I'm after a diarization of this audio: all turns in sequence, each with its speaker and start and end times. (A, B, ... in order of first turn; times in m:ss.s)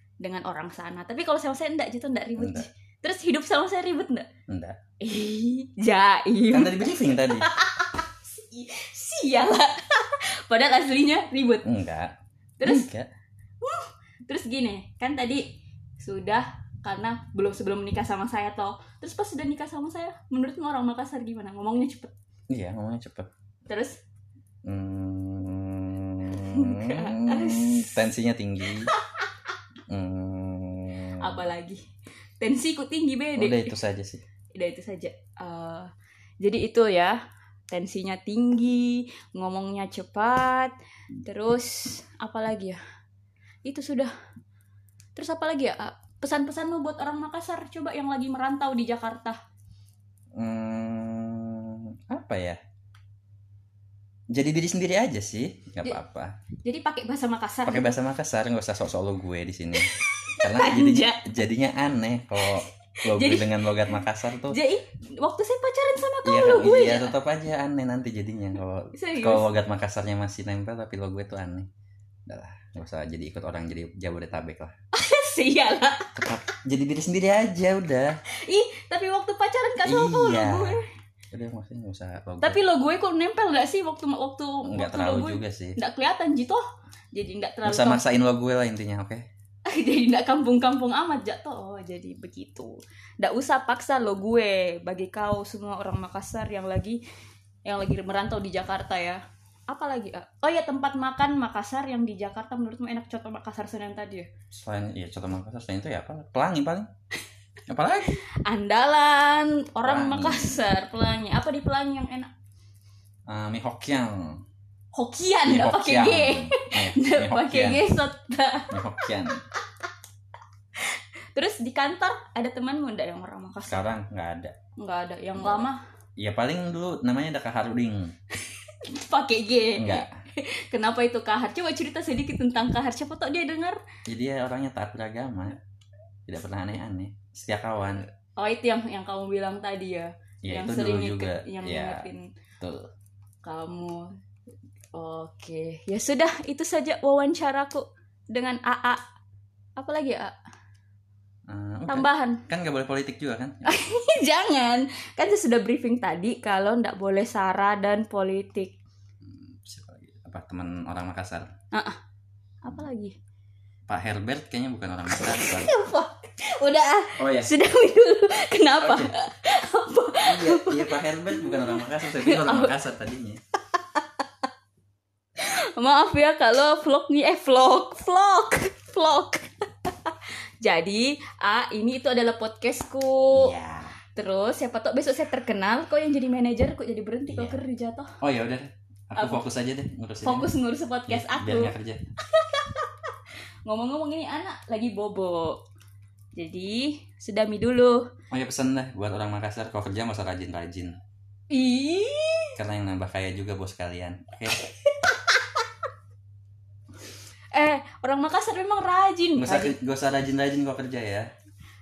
0:00.2-0:04.3 A
0:02.4-0:02.7 B
0:04.5-0:04.8 B
0:05.0-0:11.7 A
0:06.5-0:07.5 B
0:11.6-0:13.1 B
0:12.6-0:12.9 A
0:13.6-0:15.5 A
0:16.0-0:22.1 A
0:22.5-0:23.3 B
0:23.7-0:24.0 A
0:24.6-0:29.0 B
0:26.3-0:28.1 A
0:28.8-0:29.3 A
0:29.9-0:31.4 B
0:31.2-0:31.8 A
0:32.4-0:33.7 A
0:33.4-0:34.2 B
0:34.6-0:35.9 A
0:36.4-0:37.2 A
0:37.7-0:42.8 A
0:43.7-0:44.1 A
0:45.2-0:49.4 A
0:50.4-0:52.6 B
0:54.3-0:56.3 B
0:56.6-0:57.9 A
0:57.7-1:04.6 B
1:00.0-1:01.4 A
1:02.4-1:03.9 A
1:04.5-1:07.1 A
1:06.2-1:11.7 B
1:09.0-1:09.5 A
1:12.3-1:14.7 B
1:14.9-1:16.2 A
1:16.2-1:18.2 B
1:18.4-1:20.8 A
1:19.8-1:20.8 B
1:21.3-1:22.6 B
1:22.4-1:28.0 A
1:24.6-1:25.8 B
1:27.6-1:29.2 B
1:29.7-1:37.0 A
1:37.6-1:44.3 A
1:44.5-1:46.9 B
1:47.7-1:48.2 B
1:48.4-1:52.3 A
1:49.8-1:50.6 B
1:53.3-1:54.4 B
1:54.9-1:59.1 A
1:55.5-1:57.8 B
1:58.7-1:59.4 B
2:00.8-2:03.9 A
2:03.7-2:04.6 B
2:04.8-2:05.8 A
2:05.4-2:05.7 B
2:06.2-2:08.1 B
2:08.4-2:13.8 A
2:09.8-2:10.2 B
2:14.1-2:15.6 B
2:16.3-2:18.1 B
2:18.4-2:22.3 A
2:20.4-2:22.1 B
2:22.6-2:22.9 B
2:23.4-2:24.1 A
2:24.9-2:29.0 A
2:29.8-2:30.3 A
2:31.5-2:33.6 B
2:31.9-2:32.4 A
2:33.7-2:38.8 A
2:39.2-2:41.5 B
2:41.7-2:42.0 A
2:42.6-2:43.1 A
2:43.9-2:45.7 B
2:45.3-2:52.7 A
2:47.2-2:47.5 B
2:48.8-2:49.1 B
2:50.2-2:53.4 B
2:55.4-3:03.6 A
3:03.3-3:04.0 B
3:04.2-3:08.1 A
3:07.3-3:07.6 B
3:08.2-3:10.5 B
3:09.2-3:09.4 A
3:10.2-3:11.7 A
3:11.1-3:12.0 B
3:12.3-3:13.0 A
3:13.7-3:15.6 A
3:16.4-3:18.1 A
3:18.3-3:21.0 B
3:21.5-3:22.6 A
3:22.6-3:24.6 B
3:24.6-3:25.6 A
3:27.5-3:29.8 A
3:29.4-3:31.3 B